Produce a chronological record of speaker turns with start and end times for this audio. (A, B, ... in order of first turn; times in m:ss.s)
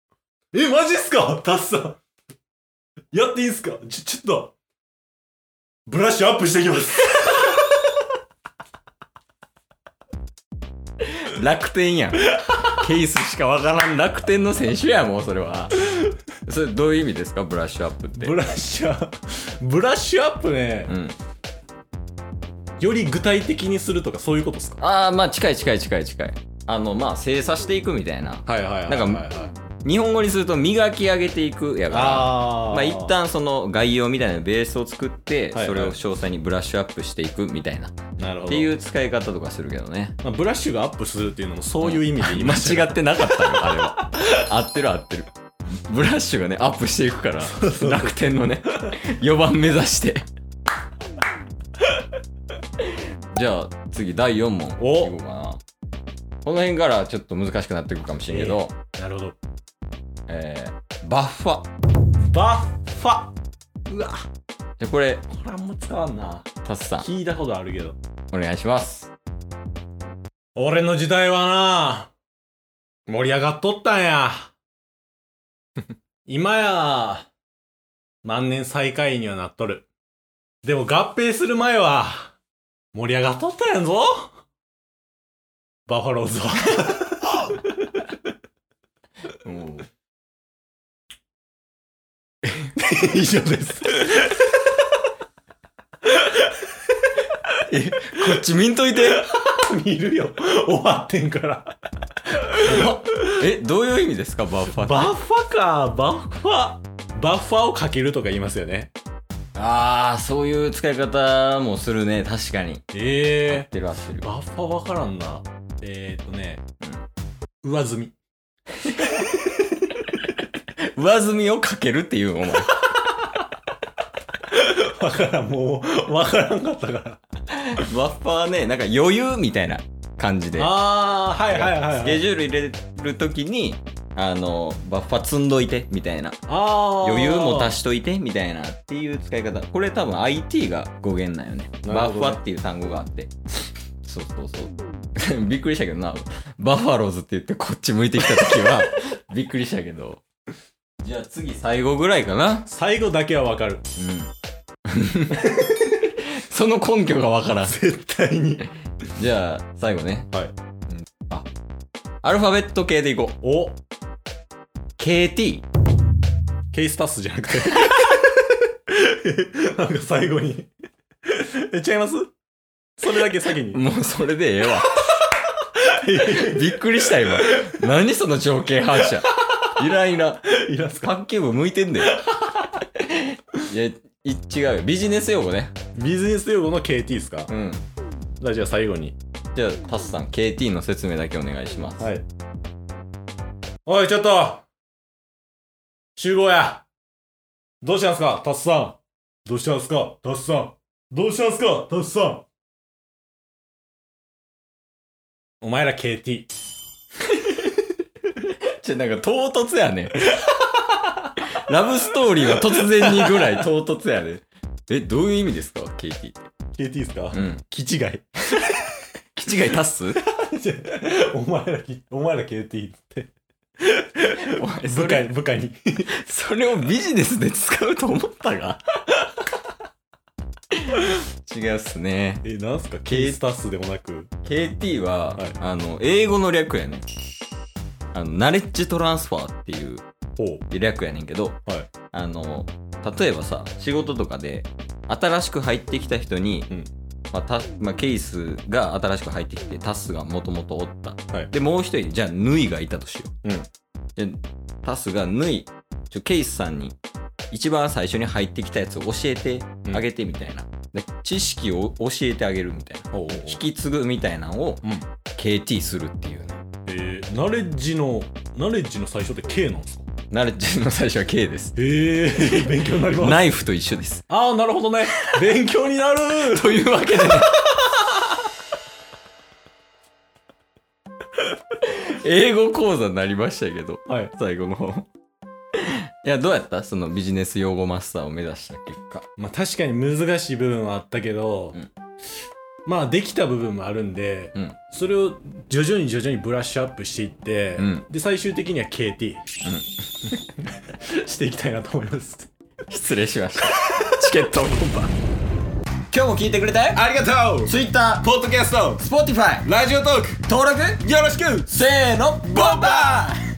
0:00.5-0:02.0 A
0:03.1-0:04.5 A
0:05.9-0:07.6 A
0:11.1-0:15.9 B
0:16.4-0:18.4 B
0:18.2-0:20.9 A
0:20.9-0:21.2 B
0:22.8-0:24.8 A
0:24.8-0:29.2 B
0:28.4-0:29.5 A
0:29.8-0:37.9 B
0:31.9-0:33.2 A
0:35.5-0:36.0 A
0:38.2-0:38.7 A
0:38.5-0:40.2 B
0:40.2-0:43.8 A
0:41.8-0:45.3 B
0:45.9-0:50.2 B
0:47.5-0:48.2 A
0:53.3-0:55.6 B
0:54.8-0:55.1 A
0:56.4-0:58.7 B
0:58.3-0:59.4 A
1:00.3-1:01.7 B
1:02.3-1:03.3 A
1:03.9-1:04.2 A
1:04.8-1:05.3 B
1:05.3-1:06.5 A
1:06.6-1:07.1 B
1:07.0-1:08.0 A
1:08.3-1:09.1 B
1:10.6-1:12.1 A
1:13.1-1:14.5 A
1:16.3-1:17.3 A
1:18.2-1:19.9 A
1:20.6-1:22.4 A
1:22.9-1:24.4 A
1:25.9-1:28.1 A
1:29.4-1:29.9 B
1:32.7-1:34.6 A
1:36.1-1:36.6 A
1:37.6-1:39.3 B
1:39.0-1:43.4 A
1:42.6-1:45.1 B
1:44.7-1:48.9 A
1:49.5-1:52.8 B
1:52.9-1:53.7 A
1:53.5-1:54.3 B
1:54.2-1:56.6 A
1:57.6-1:58.1 A
1:59.1-1:59.5 A
2:00.9-2:02.8 B
2:04.5-2:07.2 A
2:07.5-2:10.8 B
2:10.6-2:12.2 A
2:11.5-2:16.4 B
2:16.5-2:17.8 A
2:17.0-2:23.3 B
2:21.8-2:22.4 A
2:24.0-2:30.2 B
2:28.5-2:28.7 A
2:31.0-2:32.7 B
2:32.7-2:33.8 A
2:34.0-2:34.3 B
2:34.9-2:37.8 B
2:37.6-2:38.7 A
2:39.2-2:40.3 B
2:40.9-2:41.5 B
2:42.2-2:43.4 B
2:43.4-2:43.8 A
2:45.0-2:45.6 B
2:46.7-2:50.7 A
2:51.2-2:52.3 A
2:53.0-2:53.8 A
2:53.7-2:55.3 B
2:55.7-2:57.8 A
2:56.1-3:02.3 B
2:59.0-2:59.5 A
3:00.5-3:01.1 A
3:02.8-3:05.7 B
3:05.9-3:07.5 A
3:07.5-3:07.8 B
3:08.4-3:09.2 A
3:09.5-3:12.1 B
3:12.0-3:12.2 A
3:13.8-3:14.6 A
3:16.2-3:16.8 A
3:17.8-3:22.4 A
3:25.6-3:26.5 A
3:28.4-3:30.7 B
3:31.4-3:36.4 B
3:32.6-3:33.5 A
3:36.8-3:38.8 A
3:37.3-3:37.6 B
3:39.3-3:40.2 B
3:40.2-3:46.1 A
3:44.3-3:45.3 B
3:46.2-3:48.8 B
3:50.8-3:52.4 B
3:52.4-3:54.3 A
3:53.1-3:53.4 B
3:54.4-3:57.0 B
3:58.1-4:00.0 B
4:00.4-4:00.6 A
4:00.7-4:01.6 B
4:02.1-4:06.7 B
4:07.3-4:13.3 B
4:14.2-4:17.0 B
4:17.5-4:26.6 B
4:23.1-4:23.6 A
4:26.9-4:30.0 A
4:30.3-4:34.2 B
4:31.8-4:33.5 A
4:34.3-4:37.9 A
4:36.4-4:37.6 B
4:41.8-4:45.1 B
4:44.1-4:44.3 A
4:45.8-4:49.2 B
4:49.4-4:51.8 A
4:52.8-4:59.4 A
4:57.8-4:58.0 B
5:00.6-5:02.5 A
5:02.9-5:05.1 B
5:06.1-5:07.0 B
5:06.9-5:09.0 A
5:07.6-5:08.3 B
5:09.0-5:09.7 B
5:09.6-5:10.4 A
5:10.4-5:13.4 B
5:11.0-5:13.3 A